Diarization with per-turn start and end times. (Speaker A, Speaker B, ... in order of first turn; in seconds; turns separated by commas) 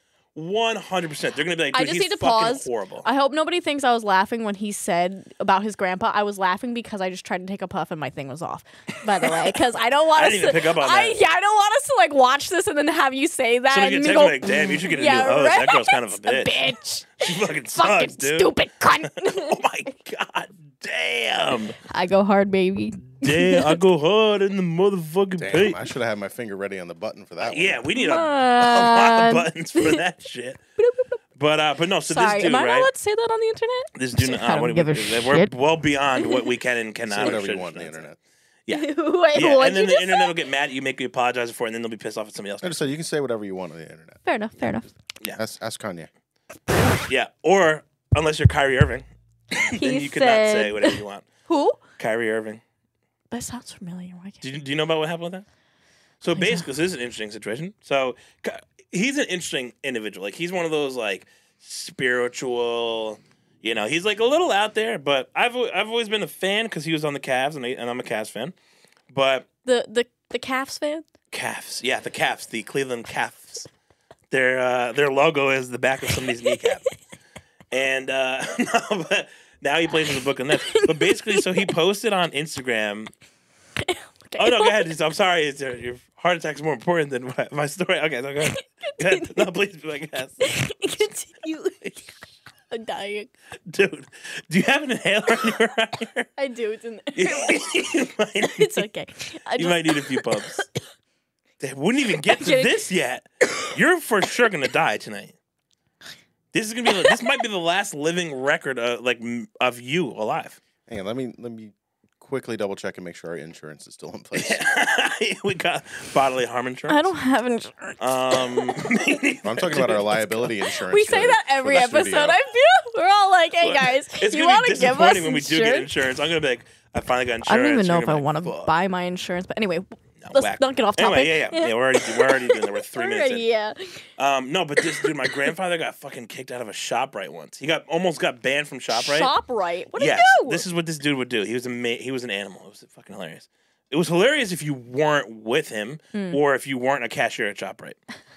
Speaker A: 0.3-3.1, Speaker B: 1.7-19.6, Speaker A: 9.2-9.5, Speaker A: 10.2-11.2, Speaker A: 13.7-16.7, Speaker A: 17.2-18.5, Speaker A: 19.1-21.8, Speaker B: 21.9-23.8, Speaker A: 23.2-25.8, Speaker C: 25.4-27.8, Speaker A: 27.4-30.6, Speaker B: 27.9-30.0, Speaker B: 30.8-31.2, Speaker A: 31.4-32.9, Speaker B: 32.0-35.5, Speaker A: 34.0-38.1, Speaker B: 36.2-36.5, Speaker C: 37.1-38.2, Speaker A: 38.7-42.9, Speaker B: 38.7-40.3, Speaker C: 42.6-44.2, Speaker B: 44.2-44.9, Speaker C: 45.4-46.1, Speaker A: 47.1-51.2, Speaker B: 49.7-51.8, Speaker A: 52.0-52.6, Speaker B: 53.3-54.4, Speaker A: 54.4-55.5, Speaker A: 56.2-68.5, Speaker B: 56.3-56.6, Speaker A: 69.1-69.5, Speaker B: 69.7-71.1, Speaker A: 71.3-73.7, Speaker A: 74.3-76.9, Speaker B: 76.5-76.9, Speaker A: 77.7-83.1, Speaker B: 80.0-81.5, Speaker B: 83.8-84.9, Speaker A: 84.4-91.1, Speaker B: 88.5-89.5, Speaker B: 90.4-91.8, Speaker B: 92.7-93.3, Speaker A: 93.7-96.3, Speaker B: 96.4-97.7, Speaker A: 97.2-98.9, Speaker B: 98.4-100.2, Speaker A: 99.6-100.7, Speaker A: 101.6-105.3, Speaker B: 102.2-102.8, Speaker A: 106.5-110.6, Speaker C: 110.9-114.6, Speaker A: 114.3-117.1, Speaker B: 116.9-118.9, Speaker A: 118.0-120.5, Speaker C: 119.5-122.4, Speaker B: 120.8-125.9, Speaker A: 123.6-128.7, Speaker B: 127.4-134.0, Speaker A: 130.2-133.5, Speaker A: 134.2-139.3, Speaker B: 134.8-135.5, Speaker B: 138.9-140.7, Speaker A: 139.9-148.0, Speaker B: 146.1-146.4